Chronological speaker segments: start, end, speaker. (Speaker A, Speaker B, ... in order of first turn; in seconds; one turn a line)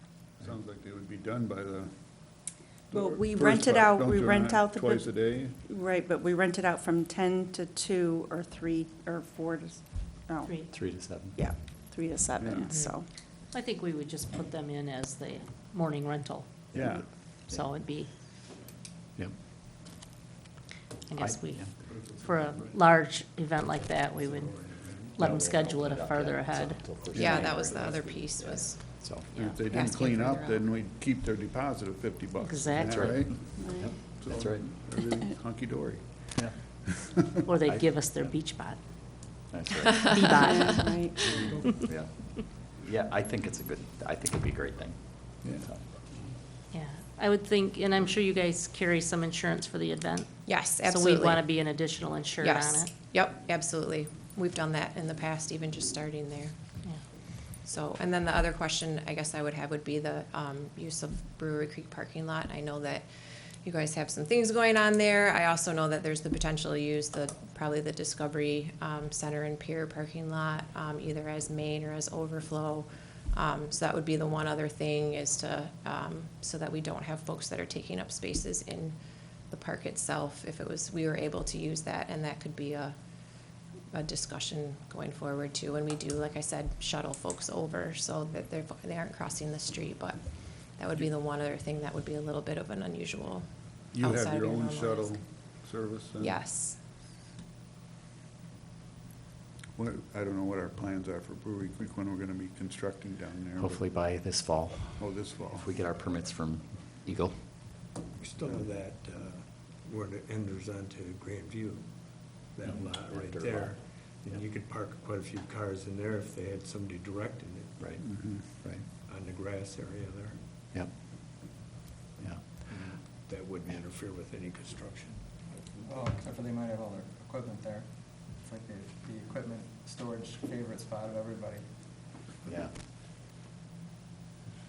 Speaker A: 0.4-5.6
Speaker B: 2.9-13.1
Speaker C: 10.7-11.4
Speaker A: 12.4-12.7
Speaker D: 12.7-12.9
Speaker E: 13.5-16.5
Speaker C: 16.7-17.7
Speaker A: 16.7-17.0
Speaker E: 17.3-18.1
Speaker E: 21.1-27.4
Speaker C: 21.1-21.7
Speaker F: 21.8-22.9
Speaker F: 23.6-25.2
Speaker C: 25.1-29.3
Speaker D: 27.1-29.0
Speaker A: 29.3-37.0
Speaker D: 29.7-30.6
Speaker E: 32.4-33.4
Speaker C: 32.8-34.8
Speaker B: 33.6-34.0
Speaker C: 36.3-36.9
Speaker E: 37.5-38.8
Speaker C: 37.6-38.6
Speaker C: 39.5-40.3
Speaker E: 40.1-41.0
Speaker B: 40.3-41.3
Speaker C: 41.8-45.9
Speaker A: 45.4-46.3
Speaker E: 46.7-52.9
Speaker D: 50.5-51.8
Speaker D: 52.4-56.5
Speaker D: 57.6-63.1
Speaker D: 63.6-79.0
Speaker D: 79.5-82.9
Speaker D: 83.9-90.2
Speaker D: 90.8-95.2
Speaker A: 93.9-96.4
Speaker D: 96.2-96.8
Speaker A: 99.8-103.9
Speaker C: 103.5-107.4
Speaker A: 105.0-105.7
Speaker F: 108.2-117.9
Speaker C: 113.0-114.4
Speaker C: 117.8-118.8
Speaker A: 118.0-118.4
Speaker F: 118.8-120.4
Speaker C: 122.2-122.4
Speaker F: 122.6-125.8
Speaker G: 125.8-131.7
Speaker C: 132.4-132.8